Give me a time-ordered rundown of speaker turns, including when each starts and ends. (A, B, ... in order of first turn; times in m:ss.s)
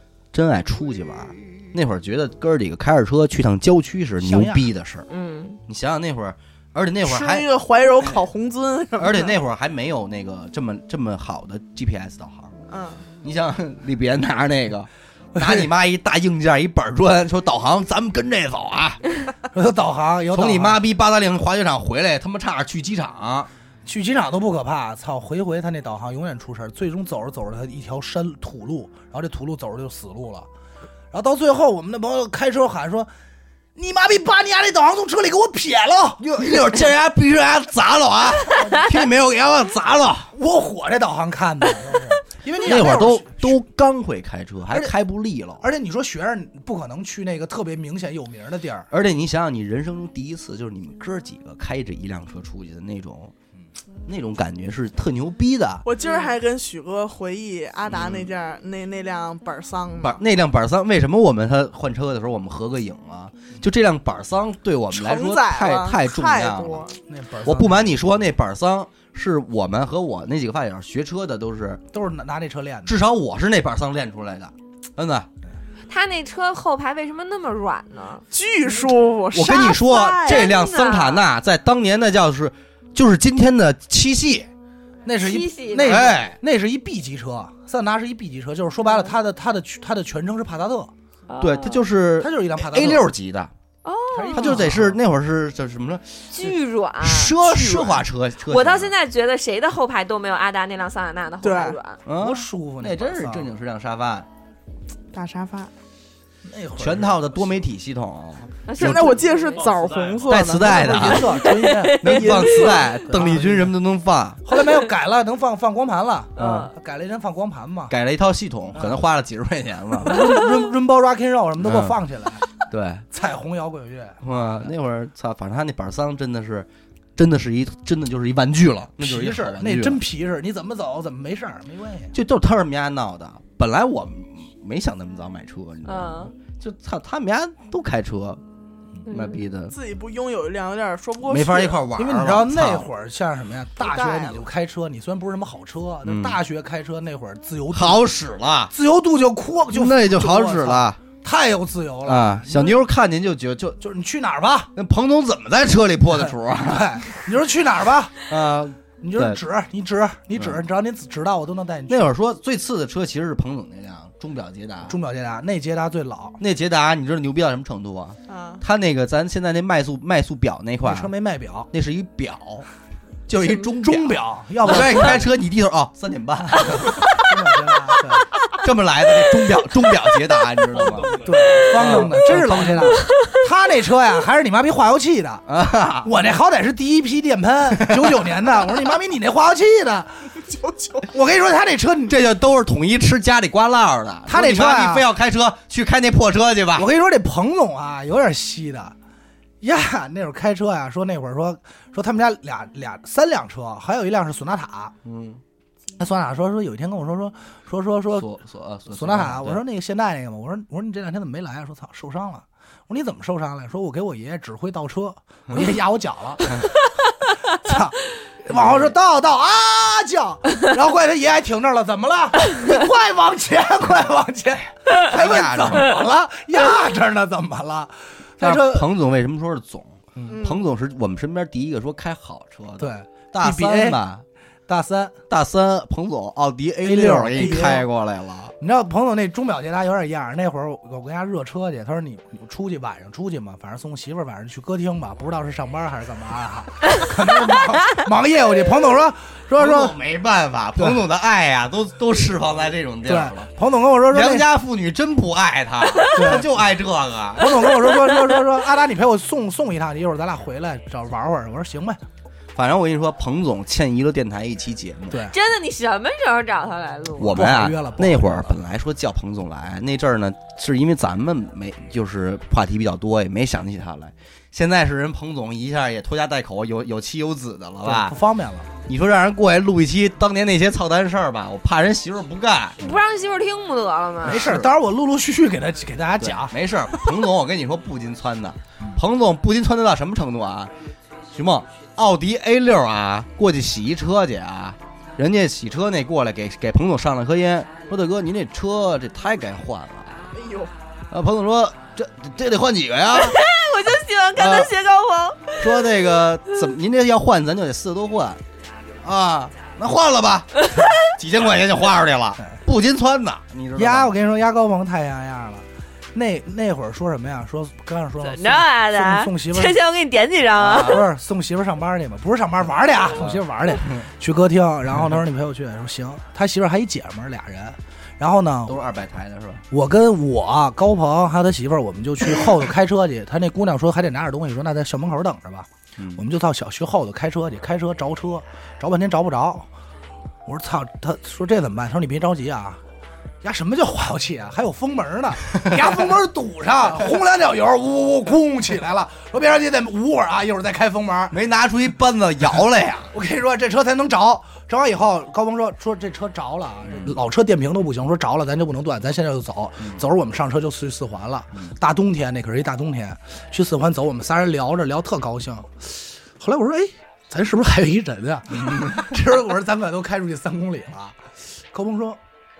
0:00.3-0:05.0 A
0:04.2-0:04.7 B
0:05.1-0:05.6 C
0:05.7-0:07.5 A
0:07.0-0:09.4 D
0:09.0-0:12.5 A
0:12.7-0:13.0 D
0:13.2-0:19.0 A
0:15.3-0:15.7 B
0:19.5-0:20.8 B
0:20.3-0:23.5 A
0:23.8-0:30.5 B
0:31.1-0:33.1 B
0:33.8-0:36.8 B
0:36.2-0:40.3 A
0:38.4-0:38.8 B
0:40.3-0:43.6 B
0:42.6-0:45.6 A
0:45.6-0:48.9 B
0:48.9-0:53.3 A
0:54.0-0:55.8 A
0:55.8-1:00.2 D
0:57.9-0:58.3 A
1:00.0-1:06.8 A
1:04.9-1:06.9 D
1:07.1-1:08.0 B
1:07.4-1:11.8 A
1:11.9-1:13.0 B
1:12.8-1:15.3 A
1:15.9-1:18.2 C
1:18.3-1:20.4 D
1:19.3-1:24.5 A
1:20.2-1:21.2 C
1:25.0-1:30.9 B
1:25.2-1:26.1 C
1:25.8-1:26.4 A
1:31.3-1:31.8 C
1:31.4-1:33.5 A
1:32.2-1:33.1 B
1:33.8-1:34.6 C
1:34.1-1:35.0 B
1:34.3-1:38.9 A
1:36.3-1:42.0 C
1:41.4-1:41.8 D
1:42.0-1:44.3 A
1:42.2-1:43.5 B
1:45.1-1:45.7 D
1:46.4-1:47.6 B
1:46.8-1:49.2 A
1:48.7-1:49.6 C
1:48.8-1:51.1 D
1:50.2-1:54.4 A
1:50.6-1:52.3 B
1:51.0-1:52.9 C
1:52.1-1:52.8 D
1:53.0-1:53.7 B
1:54.4-1:57.9 B
1:56.4-1:56.7 C
1:56.4-1:56.7 A
1:57.9-2:00.3 A
1:58.7-1:59.0 B
2:00.0-2:02.4 B
2:01.6-2:02.0 A
2:02.6-2:03.0 A
2:03.1-2:04.7 B
2:04.2-2:10.0 A
2:09.0-2:12.1 B
2:12.1-2:18.4 A
2:15.8-2:16.3 C
2:19.0-2:19.7 A
2:19.1-2:19.4 C
2:19.7-2:21.8 D
2:21.3-2:22.9 A
2:22.0-2:28.1 B
2:23.8-2:24.4 D
2:26.0-2:26.4 A
2:27.7-2:28.7 A
2:28.7-2:32.8 B
2:29.7-2:31.0 A
2:32.0-2:33.8 A
2:33.8-2:34.7 B
2:34.7-2:37.0 A
2:36.2-2:38.2 B
2:38.3-2:39.4 A
2:39.0-2:42.1 B
2:41.9-2:45.0 A
2:44.9-2:46.4 B
2:46.4-2:51.1 A
2:48.3-2:48.6 D
2:50.8-2:51.7 B
2:51.7-2:52.6 A
2:53.3-2:57.2 A
2:53.8-2:55.3 B
2:56.5-2:58.3 B
2:58.5-3:03.0 A
3:01.1-3:05.4 B
3:05.5-3:06.1 A
3:06.0-3:10.3 B
3:07.8-3:08.2 A
3:10.4-3:11.1 D
3:11.1-3:12.2 B
3:12.1-3:16.9 A
3:14.3-3:15.1 B
3:16.8-3:18.9 B
3:19.6-3:24.9 B
3:25.0-3:25.4 A
3:26.0-3:28.3 B
3:28.2-3:29.6 A
3:28.9-3:36.6 B
3:37.5-3:48.9 B
3:38.5-3:38.9 A
3:45.0-3:45.9 A
3:48.4-3:54.2 A
3:50.2-3:50.4 B
3:50.3-3:50.6 D
3:52.8-3:54.0 B
3:54.7-3:55.2 B
3:55.3-3:58.5 A
3:56.8-3:57.9 B
3:58.6-4:09.9 B
4:09.6-4:13.5 A
4:10.8-4:11.0 B
4:13.0-4:14.5 B
4:14.1-4:17.8 A
4:16.1-4:16.6 B
4:17.4-4:22.0 B
4:22.6-4:25.2 A
4:25.1-4:25.4 B
4:25.3-4:27.4 C
4:27.2-4:38.2 A
4:27.3-4:28.6 B
4:37.8-4:38.7 B
4:38.8-4:42.9 A
4:42.8-4:44.5 C
4:44.2-4:46.5 B
4:44.3-4:44.7 A
4:46.2-4:50.7 A
4:51.3-5:00.1 A
5:00.3-5:00.7 D
5:01.1-5:03.4 A
5:03.1-5:05.7 C
5:04.4-5:04.7 A
5:05.6-5:08.4 A
5:09.0-5:14.1 A
5:13.8-5:19.8 B
5:18.2-5:21.0 C
5:20.5-5:21.0 A
5:20.6-5:28.8 B
5:23.1-5:24.0 A
5:28.7-5:29.6 A
5:29.7-5:39.7 B
5:36.0-5:36.2 A
5:40.4-5:42.8 B
5:43.4-5:51.4 B
5:51.3-5:53.1 A
5:53.1-6:11.2 B
6:11.7-6:12.2 B